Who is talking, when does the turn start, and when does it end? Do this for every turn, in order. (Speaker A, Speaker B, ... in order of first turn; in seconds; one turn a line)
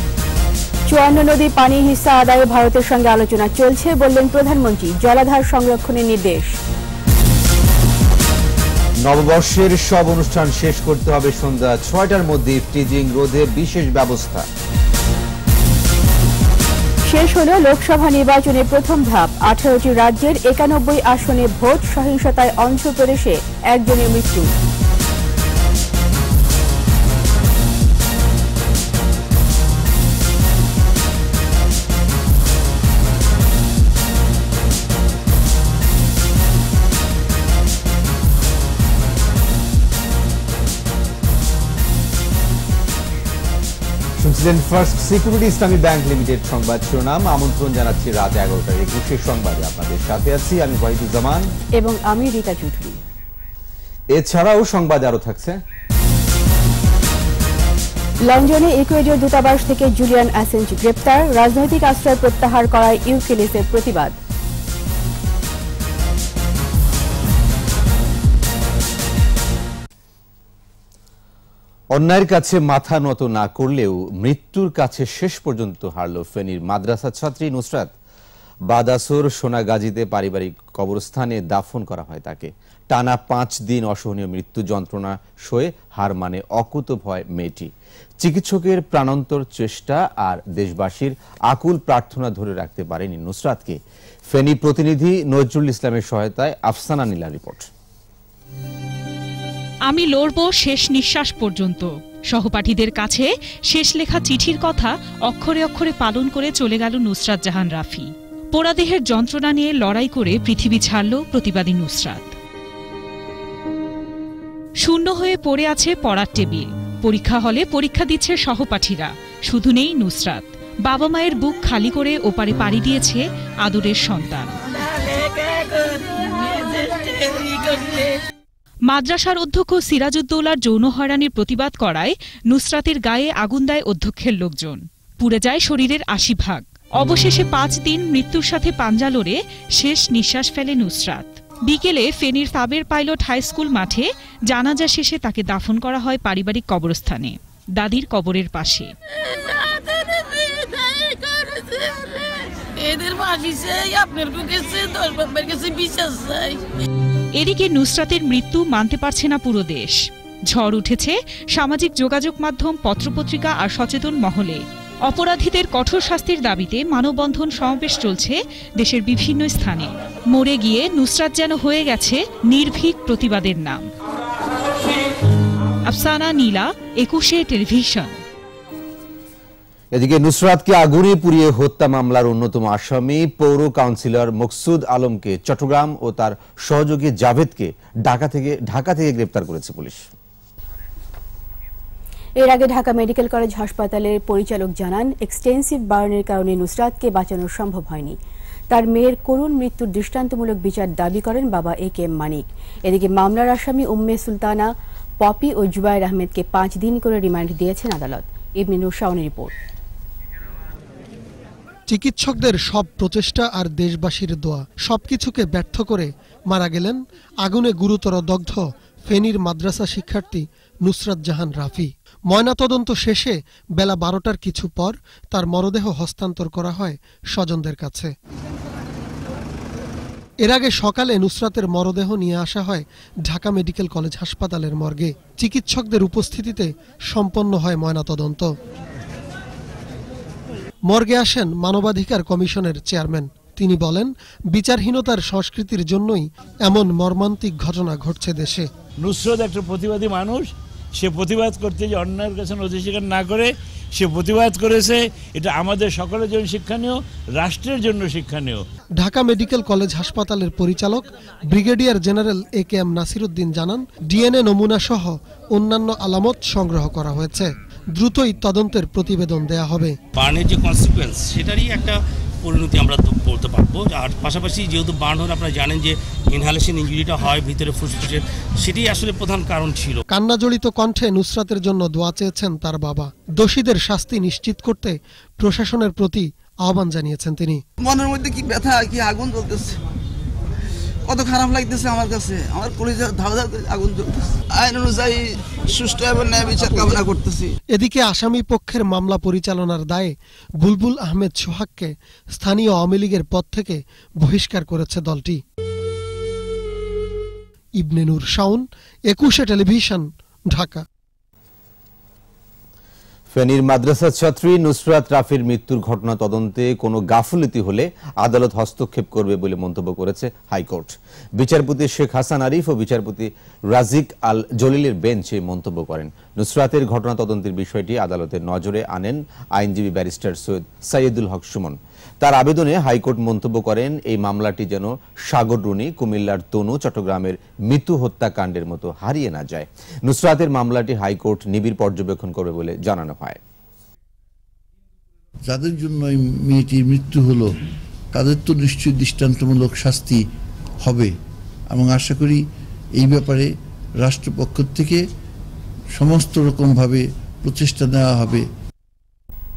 Speaker A: 0.9-6.5
Speaker B: 9.0-14.5
Speaker A: 17.1-24.5
Speaker B: 44.2-51.5
Speaker A: 51.8-53.0
Speaker B: 54.1-55.6
Speaker A: 58.2-64.2
Speaker B: 71.9-77.9
Speaker B: 78.7-97.7
Speaker C: 99.9-112.3
Speaker C: 114.8-124.5
Speaker D: 124.8-128.2
Speaker C: 128.9-148.9
Speaker D: 149.2-156.6
Speaker C: 157.4-160.0
Speaker C: 160.5-173.9
Speaker C: 175.9-178.2
Speaker B: 179.9-190.1
Speaker A: 192.4-198.2
Speaker A: 198.7-209.5
Speaker E: 211.9-228.1
Speaker E: 230.4-238.5
Speaker E: 240.9-248.7
Speaker F: 249.0-258.6
Speaker E: 259.0-270.0
Speaker G: 270.1-280.0
Speaker E: 280.1-287.6
Speaker H: 287.8-289.8
Speaker H: 291.1-297.5
Speaker E: 297.8-305.4
Speaker E: 307.8-310.8
Speaker B: 313.3-343.4
Speaker I: 345.5-347.6
Speaker I: 348.1-350.2
Speaker I: 350.8-351.1
Speaker I: 351.7-352.4
Speaker I: 353.0-355.1
Speaker I: 355.9-358.5